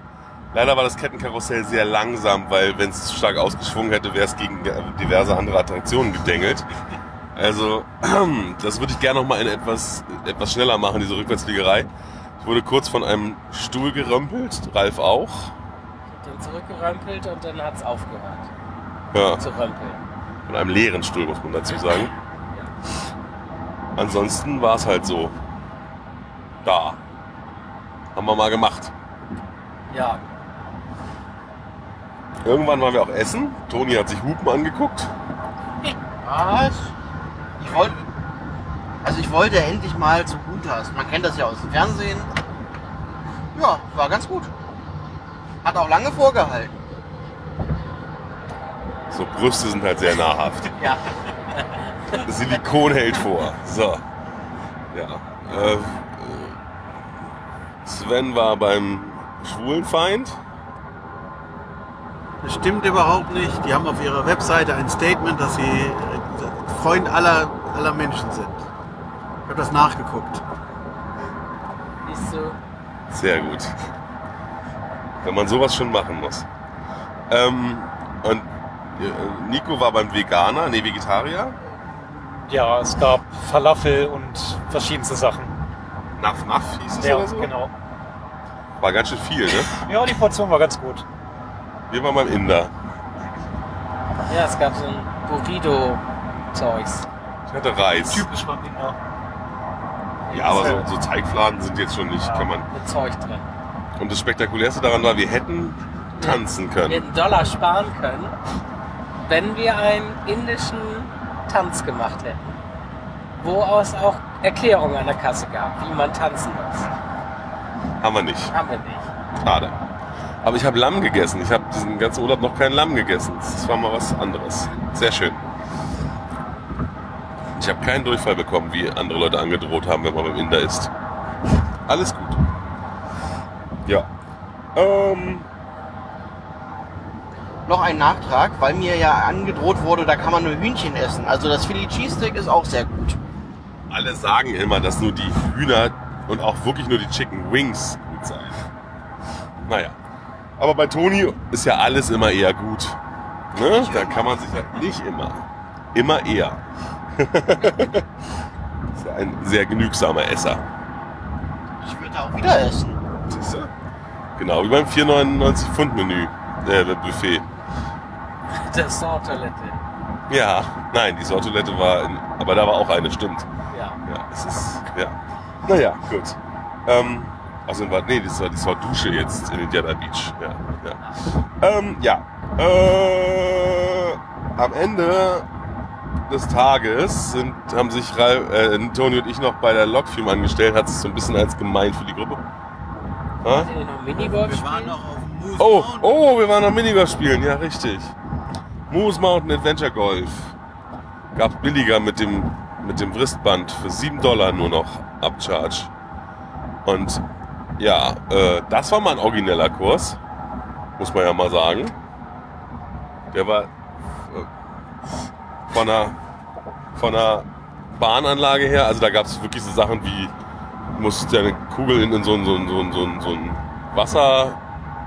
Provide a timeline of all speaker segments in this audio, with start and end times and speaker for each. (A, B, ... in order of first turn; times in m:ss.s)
0:00.5-0:06.7 A
0:07.4-0:11.9 A
0:12.4-0:15.5 A
0:16.1-0:18.5 B
0:19.1-0:19.4 A
0:19.4-0:20.0 B
0:20.5-0:22.1 A
0:24.0-0:25.4 A
0:26.6-0:27.0 A
0:28.1-0:28.9 A
0:29.9-0:30.2 B
0:32.4-0:35.1 A
0:36.2-0:36.9 C
0:37.6-0:38.0 C
0:39.0-0:42.3 C
0:43.5-0:44.5 C
0:45.6-0:46.7 C
0:49.1-0:50.7 A
0:50.8-0:52.2 B
0:52.1-0:54.0 A
0:54.9-0:56.6 A
0:57.8-1:00.4 A
1:02.4-1:08.6 D
1:09.4-1:10.4 D
1:12.0-1:12.6 B
1:13.1-1:13.7 A
1:15.2-1:16.5 A
1:17.3-1:21.6 A
1:22.3-1:25.6 E
1:26.2-1:27.5 A
1:27.0-1:27.7 E
1:28.8-1:29.8 A
1:29.7-1:31.0 E
1:31.9-1:32.7 A
1:34.3-1:37.1 B
1:37.5-1:38.3 A
1:38.0-1:39.0 E
1:40.3-1:40.8 B
1:40.3-1:42.7 A
1:40.4-1:40.8 E
1:42.2-1:42.5 E
1:42.7-1:43.4 B
1:44.0-1:47.1 A
1:46.2-1:48.4 B
1:49.2-1:52.5 B
1:53.4-1:56.9 B
1:58.0-1:58.5 A
1:58.5-1:59.1 B
1:59.4-1:59.8 A
2:00.4-2:05.4 A
2:07.6-2:10.9 A
2:11.9-2:12.4 A
2:14.7-2:15.4 A
2:17.6-2:23.2 C
2:23.9-2:28.6 A
2:29.6-2:30.0 A
2:30.6-2:33.0 A
2:33.5-2:34.6 C
2:33.5-2:36.6 A
2:37.2-2:38.0 A
2:39.0-2:40.6 A
2:41.8-2:43.0 C
2:43.3-2:43.7 A
2:44.4-2:47.4 A
2:48.5-2:49.8 B
2:50.3-2:53.5 A
2:53.7-2:54.0 B
2:54.0-3:05.5 A
3:06.3-3:12.4 A
3:13.4-3:13.7 A
3:13.4-3:15.0 B
3:14.3-3:16.2 D
3:15.6-3:18.1 A
3:18.9-3:20.5 A
3:21.3-3:25.9 A
3:26.8-3:27.2 A
3:27.8-3:30.2 A
3:31.0-3:32.0 A
3:33.3-3:33.7 A
3:35.7-3:36.2 A
3:37.0-3:40.3 A
3:40.9-3:44.6 A